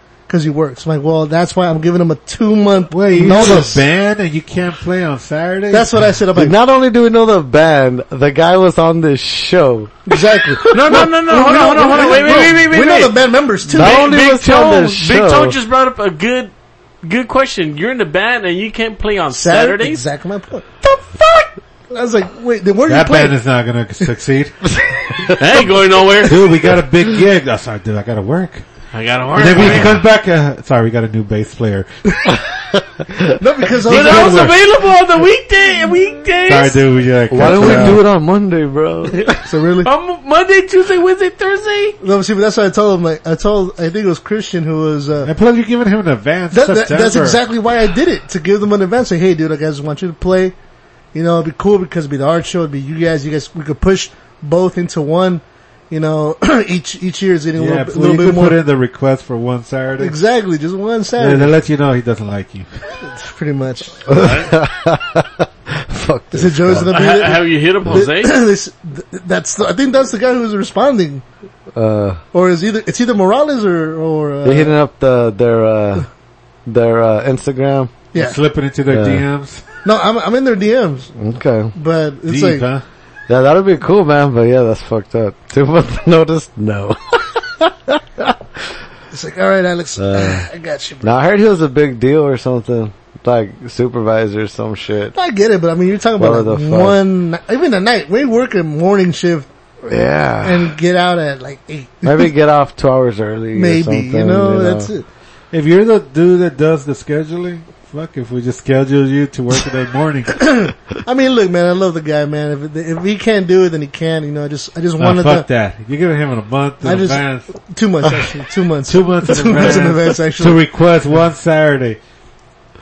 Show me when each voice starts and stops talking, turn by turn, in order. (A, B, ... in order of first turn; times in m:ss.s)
0:00.3-0:03.8 A
0:02.9-0:05.9 B
0:05.7-0:06.5 A
0:06.3-0:10.0 C
0:10.1-0:14.1 A
0:10.7-0:20.0 D
0:13.7-0:15.6 C
0:19.3-0:20.7 A
0:21.9-0:23.4 A
0:22.8-0:25.3 B
0:25.4-0:26.5 D
0:26.2-0:28.6 B
0:28.9-0:30.0 D
0:29.3-0:32.3 B
0:33.4-0:34.5 A
0:33.8-0:34.6 B
0:33.8-0:36.9 D
0:36.4-0:38.0 B
0:37.3-0:39.2 C
0:39.4-0:39.9 A
0:39.8-0:42.0 D
0:42.0-0:45.3 A
0:45.2-0:47.4 B
0:46.5-0:50.5 A
0:51.1-0:58.6 A
0:57.6-1:00.1 B
1:00.0-1:01.5 A
1:01.2-1:02.7 B
1:03.0-1:04.0 A
1:04.1-1:06.9 C
1:04.1-1:04.5 D
1:06.3-1:11.2 A
1:06.9-1:08.4 D
1:11.7-1:12.2 C
1:12.3-1:14.7 A
1:14.4-1:16.1 C
1:16.6-1:17.9 C
1:18.1-1:18.4 A
1:18.1-1:19.6 B
1:18.9-1:19.2 C
1:19.8-1:21.1 A
1:21.1-1:21.7 C
1:21.7-1:22.6 A
1:22.3-1:22.8 B
1:23.3-1:28.3 C
1:29.1-1:31.1 A
1:30.0-1:30.4 C
1:31.0-1:35.1 C
1:35.1-1:39.5 A
1:36.2-1:37.0 C
1:39.8-1:40.7 C
1:40.4-1:42.3 A
1:42.0-1:44.9 C
1:43.5-1:45.0 A
1:45.5-1:50.5 B
1:50.4-1:55.4 A
1:55.0-1:57.5 B
1:56.8-2:00.6 A
1:58.9-2:02.0 B